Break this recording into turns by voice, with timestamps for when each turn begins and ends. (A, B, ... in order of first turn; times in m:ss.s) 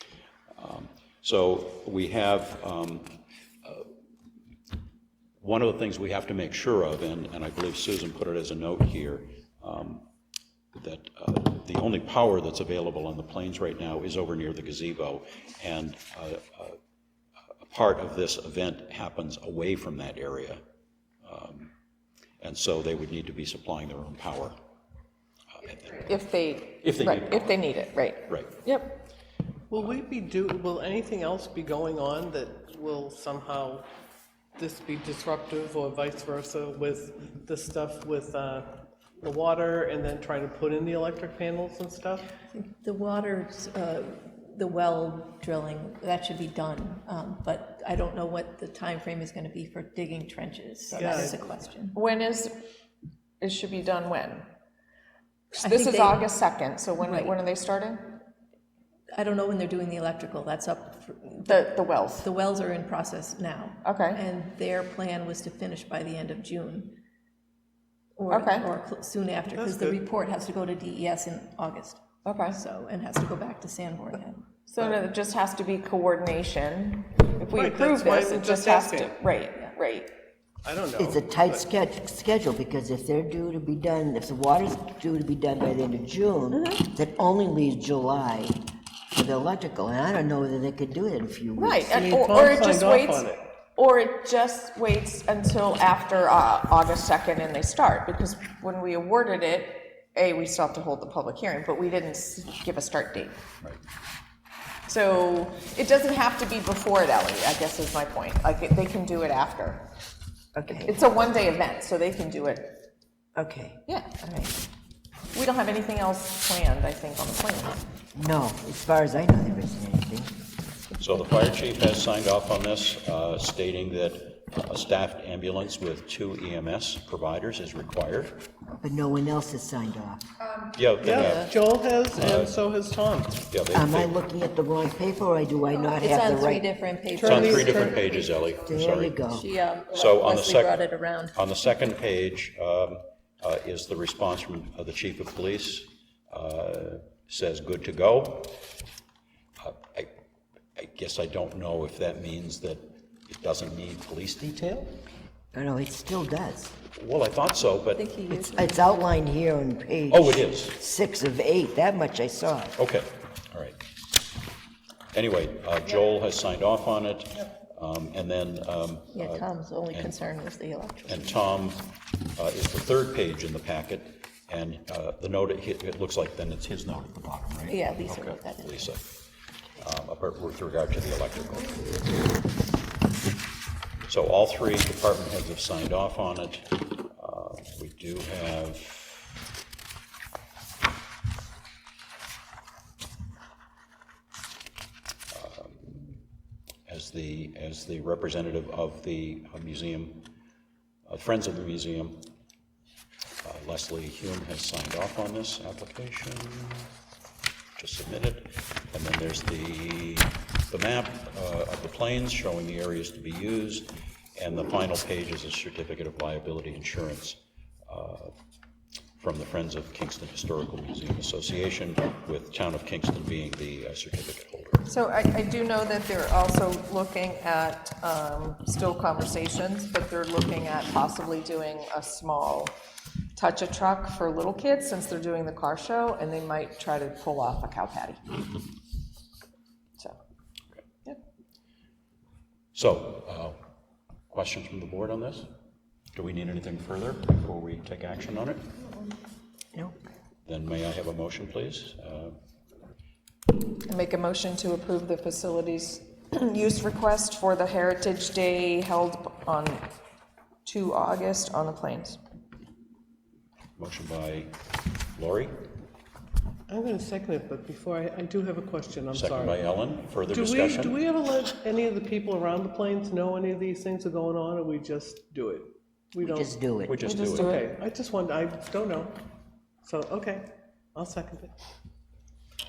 0:00.6-0:03.9 A
0:05.4-0:10.0 A
0:10.8-0:16.8 A
0:17.6-0:20.6 A
0:21.2-0:21.7 A
0:22.4-0:24.6 A
0:25.6-0:26.1 A
0:26.0-0:29.0 B
0:26.8-0:27.6 A
0:28.2-0:28.6 A
0:29.7-0:33.9 C
0:34.6-0:42.3 C
0:42.5-0:52.0 D
0:50.9-0:51.5 C
0:51.9-0:52.6 B
0:53.4-0:54.5 B
0:55.5-0:56.3 D
0:55.6-0:58.2 B
0:57.0-0:57.4 D
0:59.1-1:07.0 D
1:01.5-1:02.3 B
1:03.8-1:04.2 B
1:08.2-1:14.6 D
1:08.3-1:08.7 B
1:09.5-1:10.0 C
1:12.2-1:12.6 B
1:14.7-1:20.1 B
1:17.5-1:19.2 C
1:20.6-1:21.6 C
1:21.0-1:28.6 E
1:29.1-1:32.0 E
1:31.6-1:43.4 B
1:31.9-1:33.4 C
1:44.9-1:49.9 B
1:50.6-1:51.0 E
1:50.7-1:52.8 B
1:53.4-1:53.8 E
1:53.9-1:54.6 B
1:55.3-1:57.8 B
1:58.2-2:00.3 E
2:01.0-2:08.4 A
2:08.8-2:10.2 E
2:10.4-2:10.7 B
2:10.8-2:11.6 A
2:11.0-2:13.4 C
2:11.1-2:11.5 D
2:12.1-2:12.5 A
2:13.5-2:14.1 A
2:13.7-2:16.6 E
2:15.9-2:18.4 D
2:17.1-2:18.0 C
2:17.2-2:19.2 A
2:18.6-2:19.5 E
2:19.3-2:21.5 D
2:19.9-2:20.8 A
2:21.3-2:28.6 A
2:29.6-2:30.1 A
2:30.8-2:35.0 A
2:35.5-2:36.7 E
2:36.9-2:38.1 A
2:37.9-2:38.8 D
2:38.3-2:42.8 E
2:40.1-2:40.8 A
2:42.8-2:43.8 A
2:45.1-2:50.1 A
2:49.1-2:51.4 D
2:51.1-2:59.2 A
2:57.7-2:59.0 D
2:59.8-3:01.9 A
3:04.1-3:09.3 A
3:15.3-3:16.2 A
3:16.9-3:20.3 A
3:21.1-3:22.3 A
3:23.4-3:26.9 A
3:27.8-3:38.3 A
3:39.2-3:44.9 A
3:44.9-3:52.8 B
3:53.4-3:58.4 B
4:02.7-4:03.6 A
4:04.3-4:05.5 A
4:06.1-4:08.6 A
4:10.5-4:12.4 A
4:13.9-4:19.9 B
4:20.6-4:22.2 B
4:23.8-4:24.5 A
4:25.1-4:25.5 A
4:26.7-4:29.6 C
4:29.1-4:31.0 A
4:30.3-4:36.5 C
4:36.2-4:37.0 E
4:36.9-4:37.5 A
4:37.0-4:37.7 B
4:37.2-4:39.2 C
4:39.8-4:41.5 C